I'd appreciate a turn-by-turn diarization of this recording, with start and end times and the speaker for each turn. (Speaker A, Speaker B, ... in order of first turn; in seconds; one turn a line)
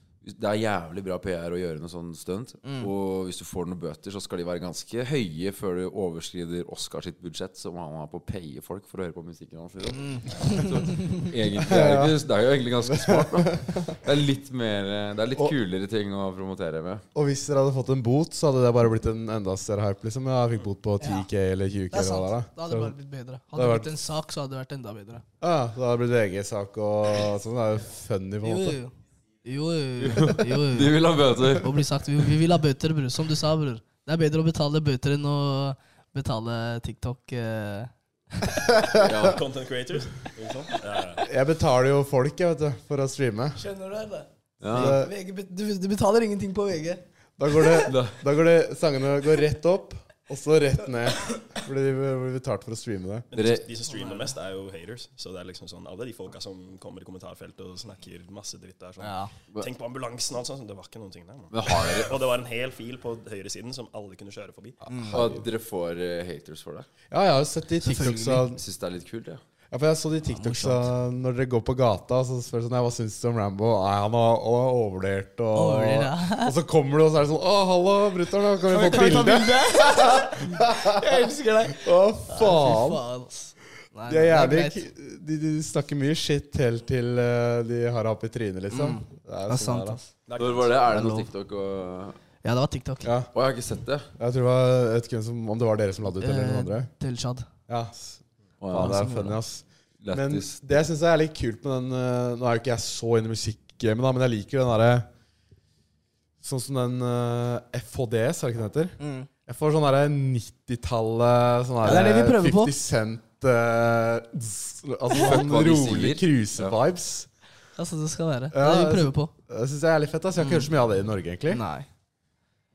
Speaker A: 0.2-17.0
Speaker B: 2.6-2.9
Speaker B: 10.0-11.2
Speaker C: 11.6-12.2
Speaker C: 12.9-14.0
Speaker C: 17.1-22.9
Speaker B: 21.0-21.3
Speaker B: 21.9-25.2
Speaker C: 23.5-23.9
Speaker C: 25.4-28.8
Speaker B: 28.4-38.8
Speaker A: 30.0-31.8
Speaker C: 38.7-39.0
Speaker A: 38.9-39.4
Speaker D: 39.0-41.3
Speaker C: 41.2-43.6
Speaker B: 43.6-47.9
Speaker A: 44.6-45.0
Speaker C: 44.7-45.1
Speaker C: 47.4-53.3
Speaker A: 47.8-48.2
Speaker D: 53.3-64.8
Speaker A: 53.3-53.6
Speaker B: 53.9-54.3
Speaker B: 59.0-59.3
Speaker A: 61.5-62.2
Speaker B: 64.9-65.2
Speaker C: 64.9-65.5
Speaker A: 65.1-66.9
Speaker C: 67.1-68.6
Speaker B: 67.8-68.5
Speaker A: 68.5-69.4
Speaker C: 69.7-81.1
Speaker B: 70.3-70.9
Speaker B: 75.5-76.5
Speaker B: 78.7-84.8
Speaker C: 81.7-83.0
Speaker C: 84.1-90.0
Speaker B: 88.7-90.1
Speaker D: 90.3-90.8
Speaker A: 90.4-92.2
Speaker B: 90.9-91.3
Speaker B: 92.4-93.1
Speaker C: 93.0-93.3
Speaker A: 93.3-94.1
Speaker C: 94.2-96.9
Speaker B: 96.2-97.5
Speaker C: 97.7-105.1
Speaker A: 98.6-99.2
Speaker B: 98.7-99.4
Speaker A: 100.0-100.5
Speaker C: 106.4-117.3
Speaker B: 109.0-109.3
Speaker B: 111.8-112.8
Speaker A: 115.2-116.8
Speaker B: 117.8-119.3
Speaker C: 118.5-121.6
Speaker B: 120.4-120.7
Speaker B: 121.5-121.9